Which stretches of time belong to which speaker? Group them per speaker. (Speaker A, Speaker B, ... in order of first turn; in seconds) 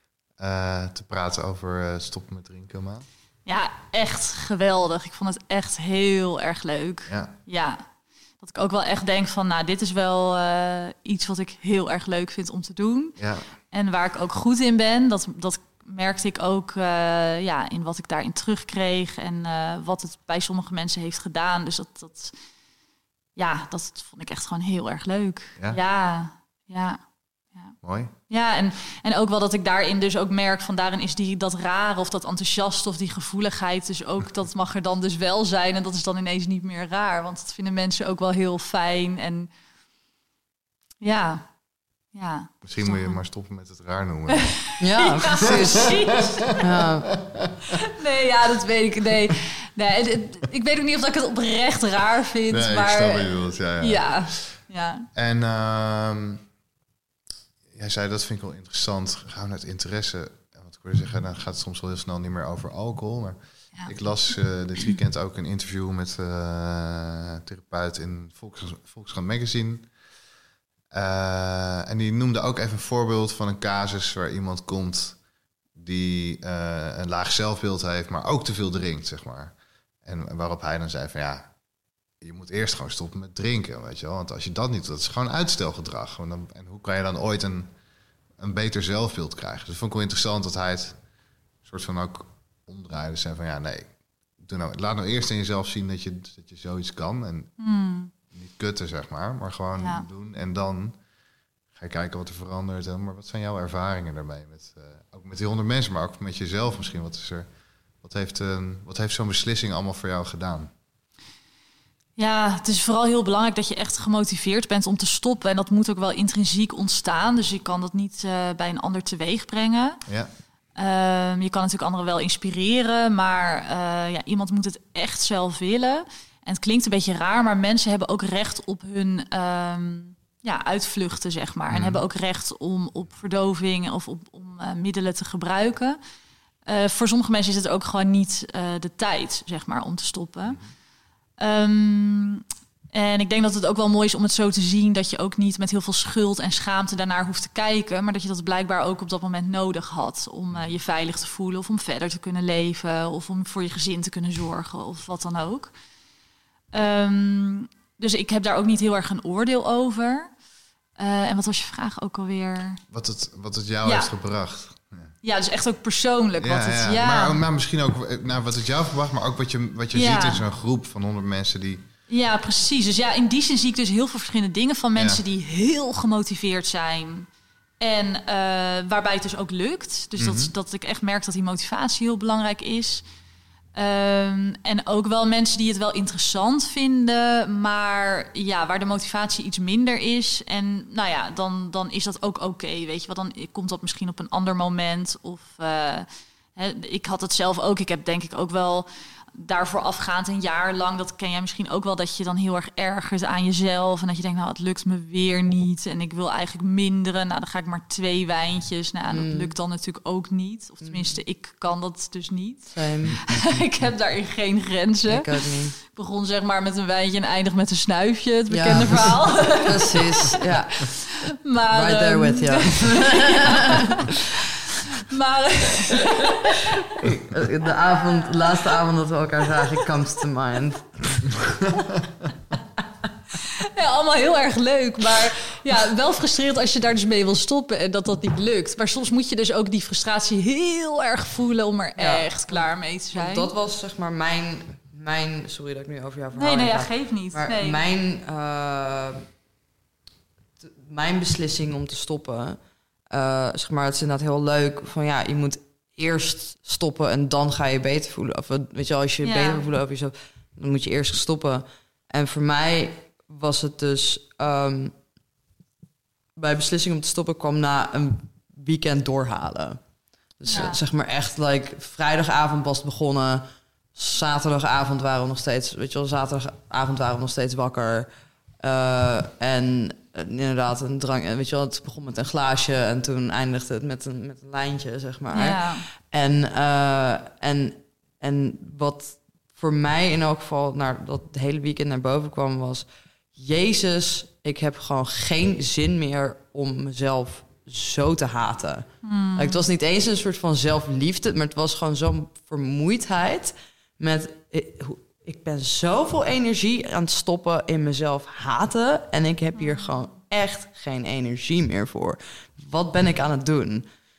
Speaker A: 0.4-3.0, 7.1-7.3, 13.2-13.5, 27.8-28.1, 42.6-44.6, 45.5-47.8, 52.5-54.1, 55.1-56.4, 57.7-69.9, 70.9-75.2, 75.8-81.5, 82.2-87.7, 88.4-91.0, 91.6-97.5, 98.3-101.0, 101.7-107.5, 108.0-110.7, 131.7-132.0, 162.9-165.1, 166.4-171.8, 175.0-175.2, 180.2-180.5
Speaker B: 3.5-7.8, 8.4-13.2, 13.7-22.3, 23.4-27.0, 28.3-39.5, 41.0-41.5, 42.1-43.2, 44.3-46.6, 47.8-55.1, 97.6-98.1, 99.8-100.1, 112.2-120.0, 120.8-136.0, 136.7-140.6, 141.4-155.7, 156.7-160.3, 161.0-162.8, 163.8-164.1, 165.2-167.4, 169.9-170.4, 172.1-177.3, 177.8-183.0, 183.8-227.0, 228.1-228.4, 233.3-243.5, 246.3-247.8, 259.2-259.6, 270.5-270.8, 285.3-285.9, 299.0-299.6, 309.6-309.9
Speaker C: 44.8-46.0, 46.6-47.1, 209.1-209.5, 210.8-211.2, 212.7-213.2, 215.1-215.8, 218.5-221.0, 221.7-224.1, 226.7-231.3, 242.0-242.6, 243.1-249.2, 250.6-252.6, 253.1-264.9, 266.4-269.8, 270.4-278.1, 278.6-313.9